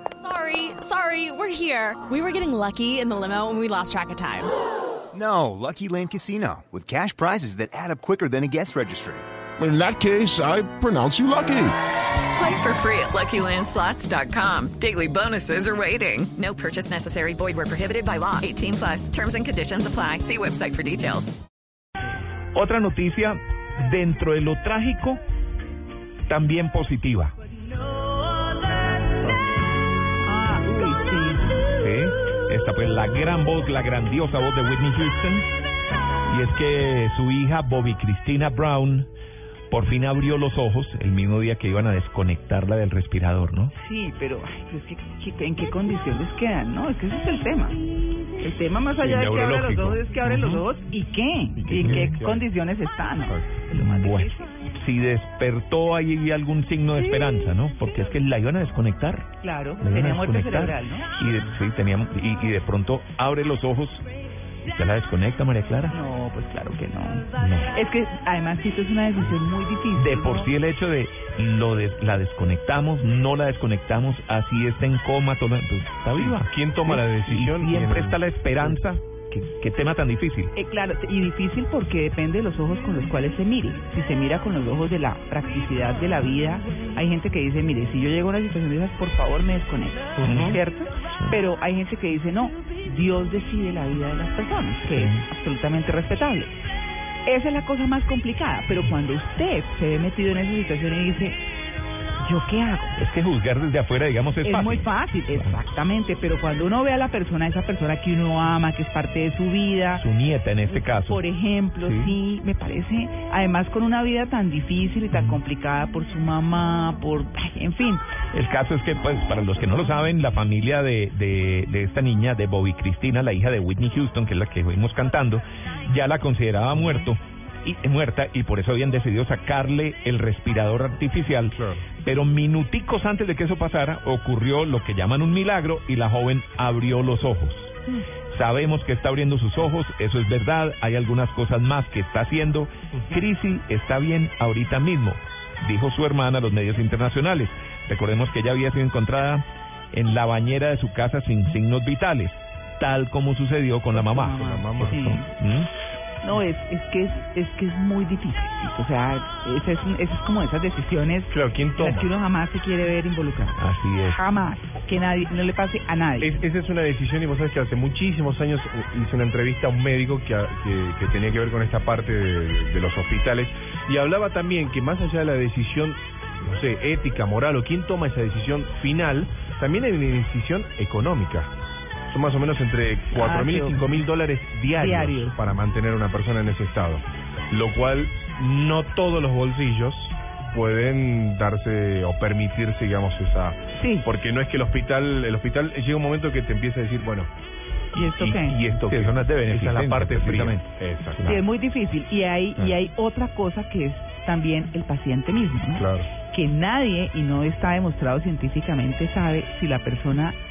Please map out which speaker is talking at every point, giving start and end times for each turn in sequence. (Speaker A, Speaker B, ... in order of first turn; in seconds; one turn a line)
Speaker A: 0.2-4.5
Speaker B: 5.1-9.2
Speaker C: 9.6-11.8
Speaker D: 12.3-21.3
Speaker E: 22.6-25.2
Speaker E: 26.3-27.4
Speaker F: 30.2-31.5
Speaker E: 31.8-35.5
Speaker E: 36.3-39.1
Speaker E: 39.7-43.7
Speaker F: 43.8-47.8
Speaker F: 48.4-54.5
Speaker G: 49.0-50.0
Speaker E: 50.3-50.6
Speaker G: 51.6-52.4
Speaker E: 51.8-52.1
Speaker E: 53.7-59.3
Speaker F: 59.4-61.1
Speaker E: 59.8-64.0
Speaker E: 64.7-66.0
Speaker F: 65.9-70.5
Speaker E: 67.4-67.7
Speaker E: 70.0-80.5
Speaker G: 76.1-78.8
Speaker F: 80.6-96.5
Speaker G: 90.2-90.5
Speaker E: 90.2-90.6
Speaker E: 94.8-95.2
Speaker F: 97.2-101.4
Speaker F: 102.2-103.0
Speaker E: 103.0-105.6
Speaker F: 104.4-110.0
Speaker E: 109.9-111.2
Speaker F: 110.7-118.0
Speaker E: 111.8-112.2
Speaker E: 115.1-115.4
Speaker E: 118.3-137.8
Speaker G: 131.5-131.8
Speaker E: 138.3-155.7
Speaker F: 153.9-155.3
Speaker G: 154.4-154.9
Speaker F: 156.2-166.3
Speaker G: 161.3-162.1
Speaker E: 163.6-164.2
Speaker G: 166.2-181.5
Speaker G: 182.1-197.3
Speaker F: 183.1-184.0
Speaker F: 184.7-185.4
Speaker F: 193.7-194.1
Speaker F: 197.9-198.6
Speaker E: 198.0-201.4
Speaker G: 198.6-201.4
Speaker F: 201.3-210.4
Speaker G: 205.8-206.1